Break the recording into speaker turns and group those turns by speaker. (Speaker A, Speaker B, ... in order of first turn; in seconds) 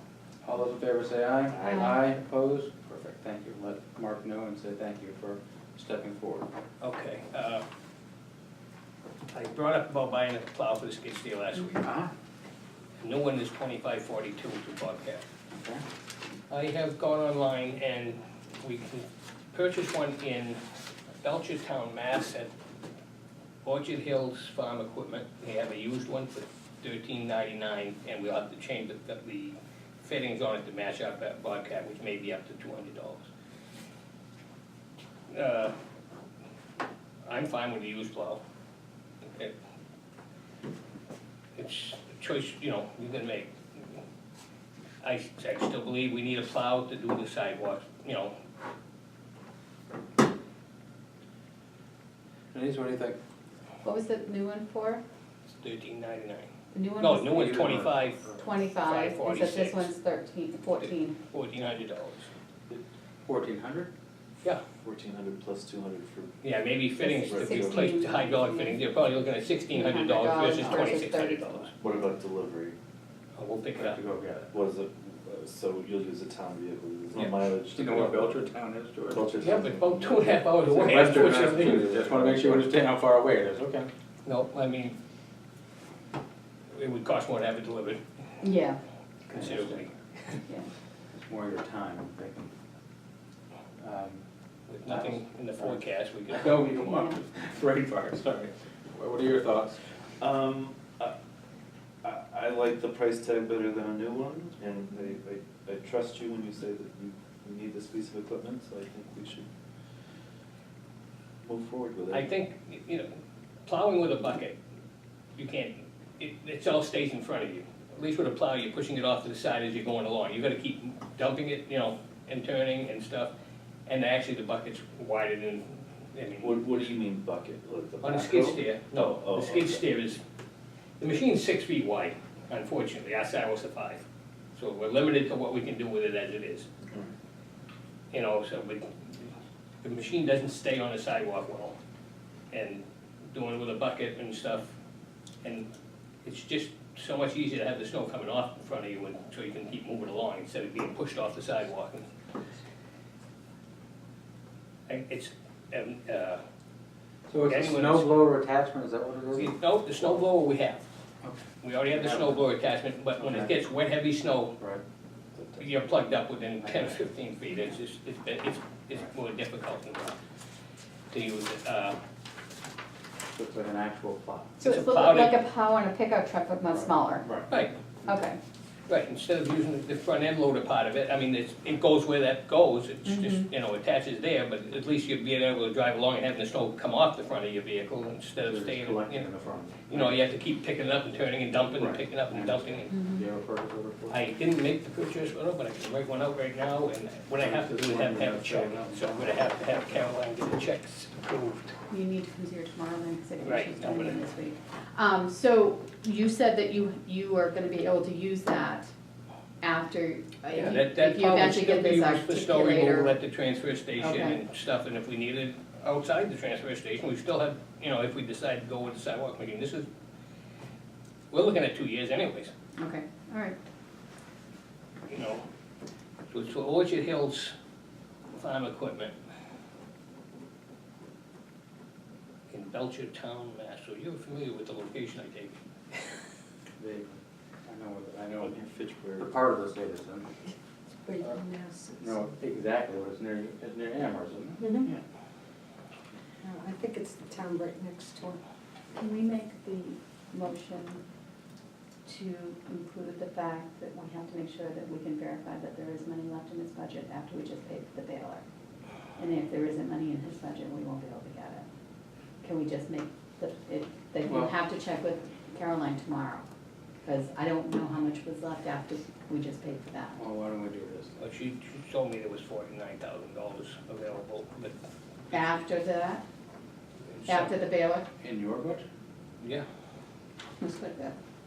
Speaker A: 0.4-6.5, 11.8-12.1, 15.5-15.8, 52.5-53.2, 57.3-58.4, 63.2-63.9, 73.8-74.5, 77.7-79.4, 80.8-83.9, 89.3-89.9, 91.1-92.5, 93.8-94.2, 94.8-99.9, 157.3-160.2, 161.2-162.4, 163.2-163.5, 166.6-166.9, 173.3-174.6, 176.7-178.2, 188.4-190.2, 191.8-194.2, 197.4-199.8, 236.8-238.6, 239.2-240.3, 242.0-245.0, 264.2-264.5, 270.1-271.2, 278.2-278.9
Speaker B: 1.6-2.0, 53.8-55.0, 56.7-57.5, 58.4-61.2, 67.0-68.8, 69.7-71.7, 88.4-88.8, 96.9-97.2, 174.6-177.3, 178.0-178.4, 183.1-183.5, 192.9-193.2, 201.9-208.9, 209.6-213.2, 214.0-214.4, 222.8-223.6, 248.9-251.0, 252.1-258.4, 259.2-261.6, 262.4-266.4, 267.0-270.2, 275.3-276.2, 277.2-278.1, 280.6-281.2
Speaker C: 6.8-7.6, 9.3-11.8, 13.0-15.2, 16.5-20.6, 21.2-22.5, 23.6-33.3, 35.3-35.7, 37.2-38.4, 39.2-39.5, 41.5-44.0, 45.0-48.3, 55.5-59.9, 60.8-62.3, 66.4-71.8, 73.4-74.0, 79.4-81.9, 84.2-85.0, 86.7-88.0, 89.3-90.4, 94.7-96.8, 112.1-113.1, 113.7-114.6, 115.3-123.3, 123.8-126.7, 128.0-130.2, 131.0-134.0, 134.5-136.7, 138.1-141.8, 142.5-144.7, 145.4-145.7, 146.2-152.1, 154.9-156.4, 157.5-158.2, 159.3-160.8, 161.6-164.6, 165.6-170.2, 171.1-172.0, 174.6-175.4, 177.5-177.8, 178.9-189.3, 189.8-193.0, 194.1-201.8, 203.4-204.2, 210.5-219.8, 221.3-222.5, 225.1-225.4, 226.3-227.5, 228.3-229.1, 232.5-236.1, 271.2-274.8, 277.1-277.5, 279.4-279.6
Speaker D: 64.8-66.4, 67.3-68.2, 71.8-72.8, 74.5-78.4, 79.1-82.7, 100.2-101.1, 102.0-109.5, 111.4-112.3, 126.4-129.8, 165.3-165.9, 238.4-239.3
Speaker E: 241.0-242.3, 244.6-244.9, 246.4-248.4